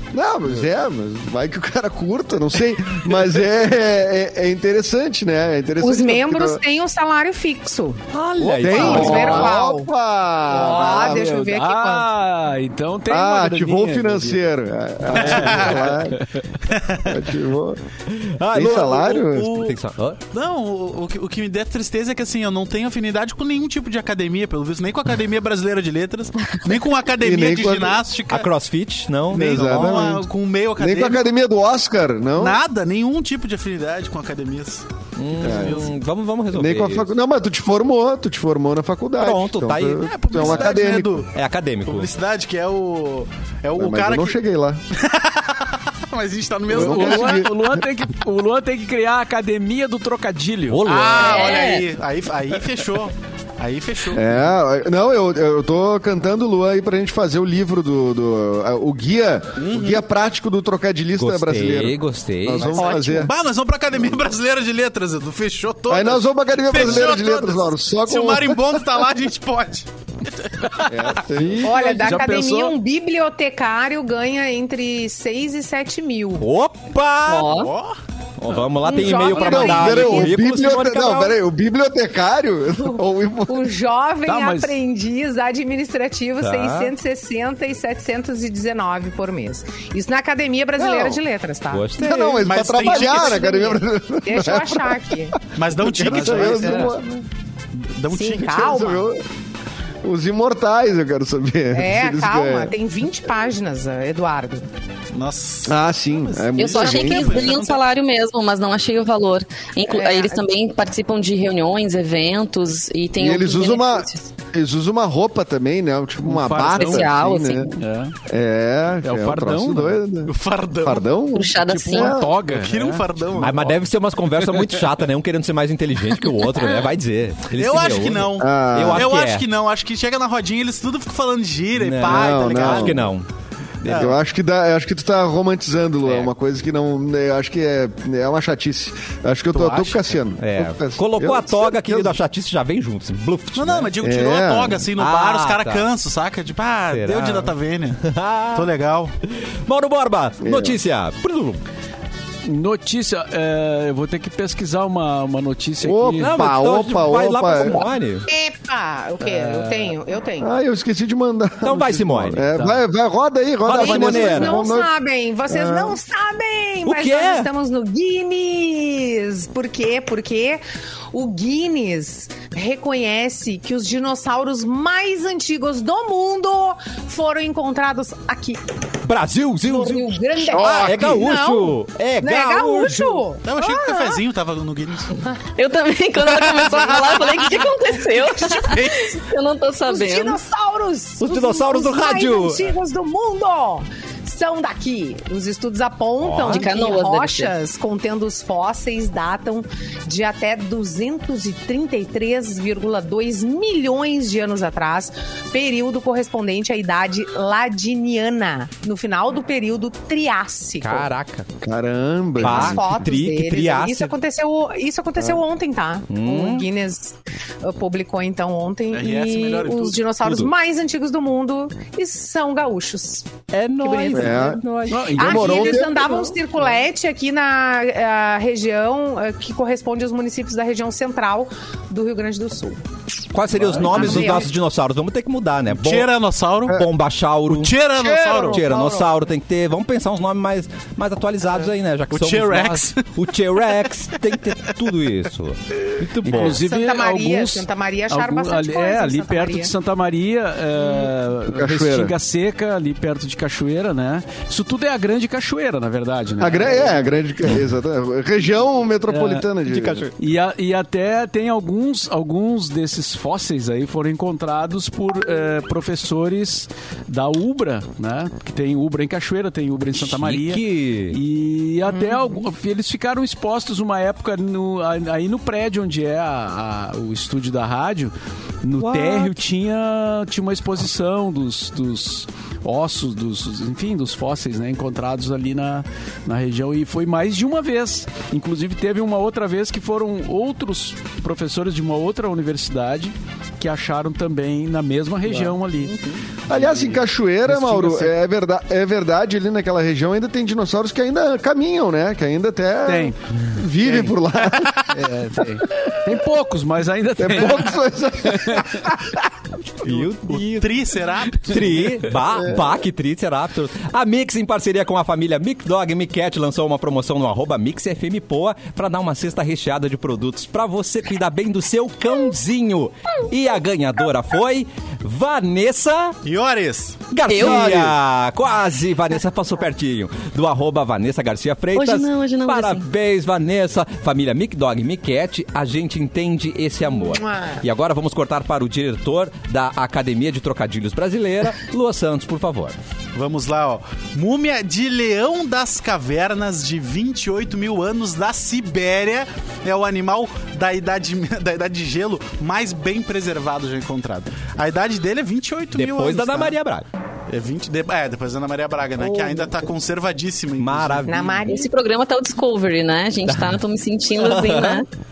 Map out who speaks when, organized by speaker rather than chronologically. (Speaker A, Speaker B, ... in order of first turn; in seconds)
Speaker A: 0.1-6.6, 8.5-11.3, 13.1-16.2, 17.0-17.8, 18.5-19.6, 27.2-28.0, 29.3-30.2, 30.8-32.6, 35.4-35.9, 36.5-41.2, 43.8-44.8, 46.7-47.8, 54.1-63.3, 65.9-68.8, 70.8-72.0, 79.3-83.7, 90.8-91.2, 92.0-95.0, 95.7-97.2, 98.6-99.2, 100.0-102.7, 105.7-107.5, 113.2-117.7, 118.3-122.3, 128.4-129.1, 132.0-133.1, 133.9-142.2, 144.0-144.8, 150.4-150.8, 155.8-157.9, 160.4-164.9, 165.5-166.0, 211.6-213.1, 224.1-224.6, 225.2-226.2, 251.5-252.1, 256.4-260.1, 296.5-304.9, 307.2-309.2, 327.4-327.9
Speaker B: 5.8-8.0, 8.6-9.9, 10.4-12.1, 71.6-76.5, 78.8-80.4, 82.8-95.3, 98.1-99.0, 101.7-104.7, 109.9-110.4, 158.2-160.5, 163.7-178.6, 179.6-184.2, 189.9-211.1, 212.4-232.8, 233.6-234.5, 238.0-239.1, 246.3-249.7, 336.8-337.6, 361.1-361.7
Speaker C: 8.1-9.5, 18.1-20.2, 28.3-30.1, 35.1-37.1, 39.2-40.7, 41.3-42.1, 50.7-51.6, 61.1-62.8, 76.4-77.6, 78.4-81.4, 86.4-86.9, 91.7-92.5, 123.4-129.4, 131.8-133.3, 133.8-134.1, 140.4-143.9, 145.0-145.8, 146.9-148.7, 149.7-151.6, 156.2-158.2, 161.6-162.5, 163.6-164.6, 166.8-167.5, 179.1-183.3, 191.2-192.7, 196.2-196.7, 210.8-211.5, 212.4-214.1, 216.1-216.7, 220.2-220.5, 223.5-225.2, 233.3-236.1, 236.7-237.8, 238.4-246.6, 259.6-260.1, 270.0-271.2, 278.8-279.3, 309.8-310.7, 311.5-326.1, 327.1-342.8, 355.7-356.9, 359.0-359.5, 360.6-361.5, 363.3-363.6, 364.1-364.8
Speaker D: 8.9-9.4, 51.2-51.8, 77.3-77.7, 106.6-114.3, 116.7-117.7, 121.3-122.2, 185.5-190.4, 196.4-197.5, 327.3-327.7, 331.7-332.9, 361.4-364.9
Speaker E: 10.6-14.4, 15.2-16.4, 46.7-50.9, 71.6-72.8, 84.2-84.8, 116.2-117.2, 117.7-118.2, 119.0-120.0, 121.6-123.1, 124.4-124.8, 152.4-156.4, 159.2-159.9, 224.9-225.9, 246.0-257.1, 259.1-259.5, 260.2-298.1, 302.8-303.1, 303.8-304.1, 304.9-308.8, 311.5-311.8
Speaker F: 15.1-16.0, 16.6-17.2, 19.1-19.8, 20.3-28.5, 29.3-31.2, 32.4-35.9, 40.0-41.3, 41.9-44.4, 44.9-47.5, 50.9-54.3, 59.6-60.0, 62.6-69.9, 70.4-70.8, 77.6-78.0, 92.4-93.4, 95.5-96.9, 97.7-98.9, 105.1-105.8, 106.5-107.8, 120.2-121.1, 122.5-123.7, 127.5-133.1, 133.8-134.2, 139.5-140.0, 143.6-149.1, 180.6-180.9, 183.4-185.2, 186.2-187.7, 188.4-189.2, 218.9-220.0, 235.7-236.8, 237.5-238.6, 242.1-243.1, 310.3-312.1, 326.2-327.0, 343.1-356.5, 357.3-361.2